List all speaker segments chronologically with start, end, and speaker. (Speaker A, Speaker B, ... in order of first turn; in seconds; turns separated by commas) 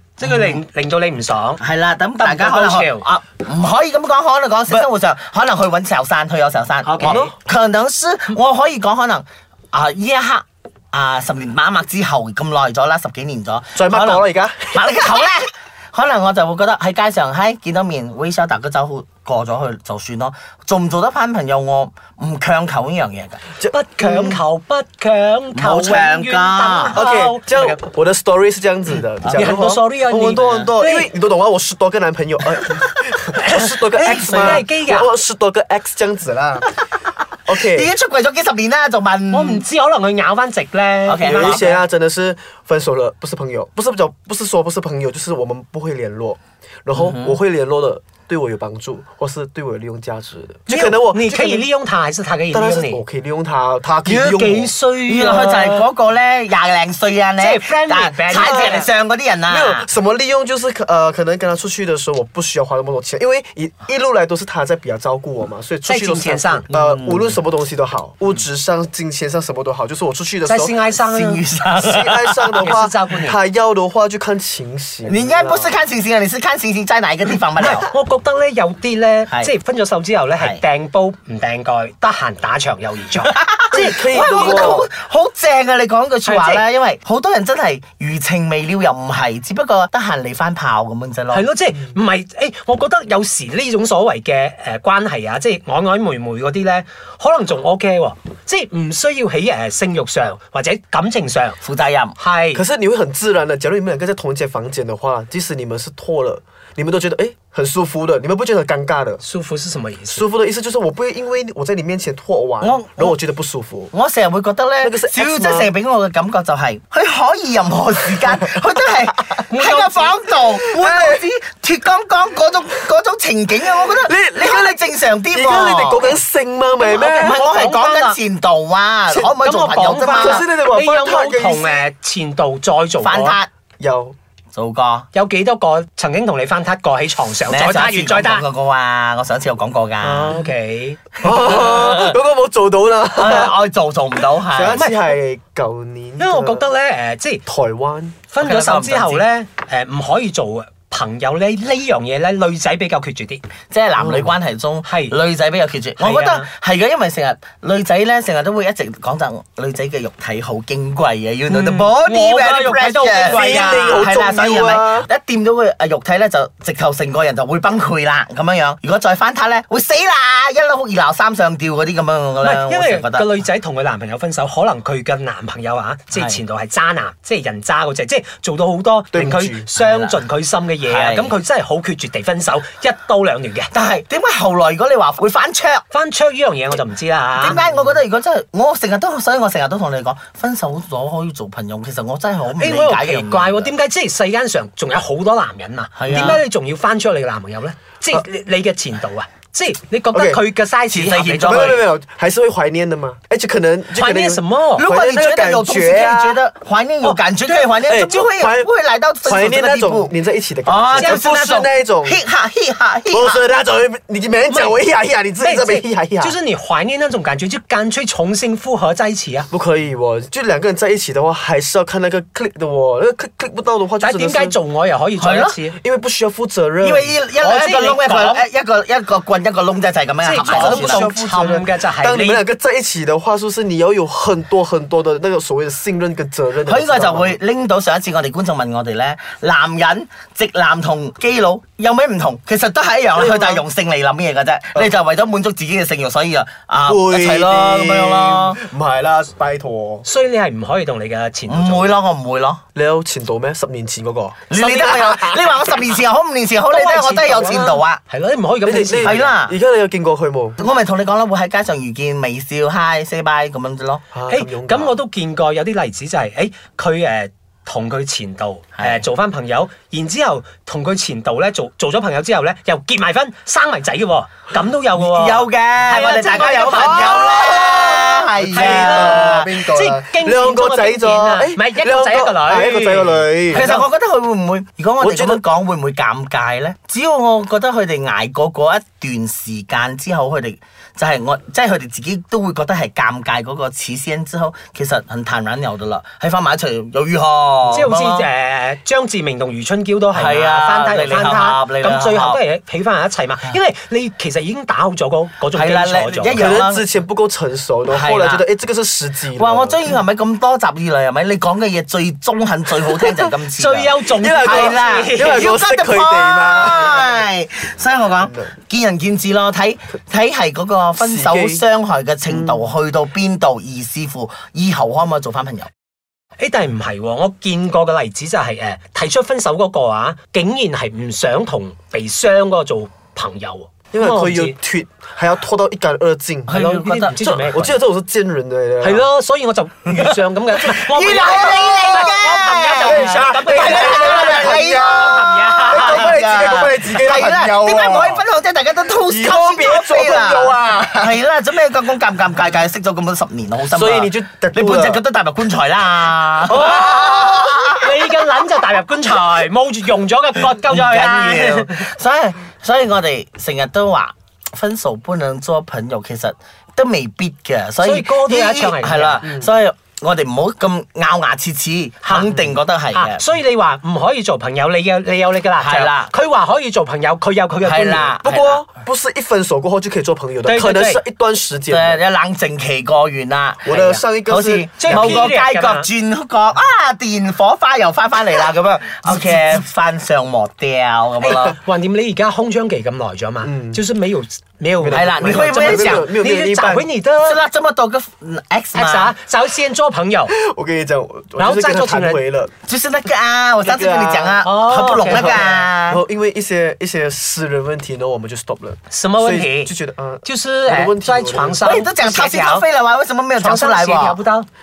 Speaker A: 0.2-1.6, Speaker B: 0.2-0.6, Speaker B: 1.6-23.4, Speaker A: 2.2-3.1, Speaker A: 6.8-7.3, Speaker C: 7.0-7.3, Speaker C: 13.7-15.3, Speaker C: 23.6-24.4, Speaker A: 23.7-27.8, Speaker B: 25.6-27.0, Speaker C: 26.9-36.7, Speaker B: 29.2-31.1, Speaker A: 29.3-31.1, Speaker A: 34.0-35.1, Speaker B: 34.0-34.6, Speaker C: 37.5-37.9, Speaker B: 37.7-39.6, Speaker A: 39.3-41.8, Speaker B: 41.1-41.6, Speaker C: 41.2-51.7, Speaker B: 47.0-47.4, Speaker A: 50.7-53.0, Speaker C: 52.5-54.8, Speaker A: 54.1-55.9, Speaker B: 55.1-59.9, Speaker A: 57.4-58.9, Speaker C: 58.4-58.7, Speaker C: 59.5-70.8, Speaker A: 65.9-66.7, Speaker B: 66.7-67.4, Speaker A: 70.5-71.4, Speaker B: 71.0-72.7, Speaker C: 71.8-75.7, Speaker A: 72.6-73.4, Speaker B: 75.1-77.9, Speaker A: 77.6-84.8, Speaker B: 80.4-80.6, Speaker B: 83.2-91.5, Speaker C: 83.7-84.9, Speaker A: 86.2-86.6, Speaker A: 91.3-101.6, Speaker B: 101.6-102.2, Speaker A: 102.2-102.6, Speaker C: 102.5-109.2, Speaker A: 109.2-110.2, Speaker C: 110.1-113.9, Speaker B: 112.6-113.2, Speaker B: 113.9-126.1, Speaker C: 114.8-115.7, Speaker A: 119.5-120.1, Speaker C: 120.7-121.2, Speaker C: 123.9-127.4, Speaker B: 126.8-130.4, Speaker A: 127.1-128.2, Speaker A: 129.4-133.4, Speaker C: 130.1-131.9, Speaker B: 133.0-133.5, Speaker C: 133.8-134.2, Speaker B: 134.5-135.1, Speaker A: 135.1-138.4, Speaker B: 137.5-140.3, Speaker C: 140.0-140.5, Speaker A: 140.3-141.0, Speaker C: 141.1-143.6, Speaker B: 141.3-142.2, Speaker B: 143.2-144.8, Speaker C: 144.4-146.7, Speaker A: 144.8-145.1, Speaker A: 146.2-147.4, Speaker C: 147.5-148.3, Speaker A: 148.3-153.4, Speaker B: 148.4-149.2, Speaker B: 153.7-173.3, Speaker C: 154.0-154.3, Speaker A: 154.9-155.2, Speaker A: 156.0-156.5, Speaker A: 161.5-164.0, Speaker C: 163.1-165.1, Speaker A: 172.4-183.7, Speaker B: 176.1-176.4, Speaker C: 179.1-179.7, Speaker B: 179.2-180.2, Speaker B: 180.9-181.3, Speaker B: 183.7-185.8, Speaker A: 185.9-187.6, Speaker B: 187.3-193.7, Speaker A: 192.6-201.8, Speaker B: 196.0-196.4, Speaker C: 200.1-200.4, Speaker B: 200.9-201.9, Speaker C: 201.4-206.4, Speaker A: 203.9-204.8, Speaker B: 204.7-213.4, Speaker A: 207.0-207.8, Speaker C: 207.8-208.7, Speaker C: 209.2-212.2, Speaker C: 213.1-216.4, Speaker A: 214.5-214.8, Speaker A: 215.4-219.5, Speaker C: 219.5-224.6, Speaker A: 224.0-225.8, Speaker B: 225.2-225.6, Speaker C: 225.8-227.2, Speaker B: 226.8-231.1, Speaker A: 227.4-228.4, Speaker A: 230.2-232.4, Speaker C: 230.5-237.4, Speaker B: 236.6-248.6, Speaker C: 243.2-243.6, Speaker C: 246.9-250.1, Speaker A: 250.0-252.0, Speaker B: 251.5-252.6, Speaker C: 252.8-255.4, Speaker B: 254.5-258.0, Speaker A: 256.7-259.2, Speaker C: 258.6-260.7, Speaker B: 259.0-259.6, Speaker B: 260.6-264.0, Speaker C: 264.1-265.0, Speaker A: 264.3-277.6, Speaker B: 268.8-269.0, Speaker B: 274.9-279.6, Speaker C: 276.5-283.7, Speaker A: 278.5-283.9, Speaker B: 283.5-298.3, Speaker C: 285.0-285.4, Speaker A: 297.7-306.6, Speaker B: 300.1-302.4, Speaker B: 305.5-306.9, Speaker C: 306.4-309.9, Speaker B: 307.9-308.5, Speaker B: 309.3-325.7, Speaker C: 312.9-313.2, Speaker A: 313.6-315.5, Speaker C: 314.1-317.3, Speaker C: 318.2-318.5, Speaker C: 321.0-321.6, Speaker C: 322.3-322.7, Speaker A: 326.4-334.6, Speaker C: 333.9-336.6, Speaker B: 336.5-337.2, Speaker A: 336.5-337.8, Speaker C: 337.2-339.1, Speaker A: 338.8-346.1, Speaker B: 339.9-358.1, Speaker C: 342.8-348.2, Speaker C: 349.0-351.1, Speaker C: 353.7-355.0, Speaker A: 356.5-361.8, Speaker B: 360.5-373.2, Speaker A: 367.8-369.2, Speaker C: 369.2-369.5, Speaker A: 372.0-378.5, Speaker B: 375.6-376.1, Speaker B: 377.6-378.5, Speaker C: 378.2-382.0, Speaker A: 380.4-381.0, Speaker B: 381.7-391.6, Speaker C: 383.6-385.2, Speaker A: 383.7-384.0, Speaker A: 384.8-385.9, Speaker A: 391.2-397.4, Speaker C: 391.3-391.5, Speaker C: 393.4-393.8, Speaker C: 394.8-396.8, Speaker B: 394.9-396.1, Speaker B: 396.6-399.1, Speaker A: 398.7-400.3, Speaker C: 400.3-402.5, Speaker A: 401.4-402.2, Speaker B: 402.7-406.0, Speaker C: 403.6-404.4, Speaker A: 404.4-405.4, Speaker C: 405.0-411.8, Speaker A: 408.9-412.7, Speaker B: 411.6-414.2, Speaker A: 413.4-414.5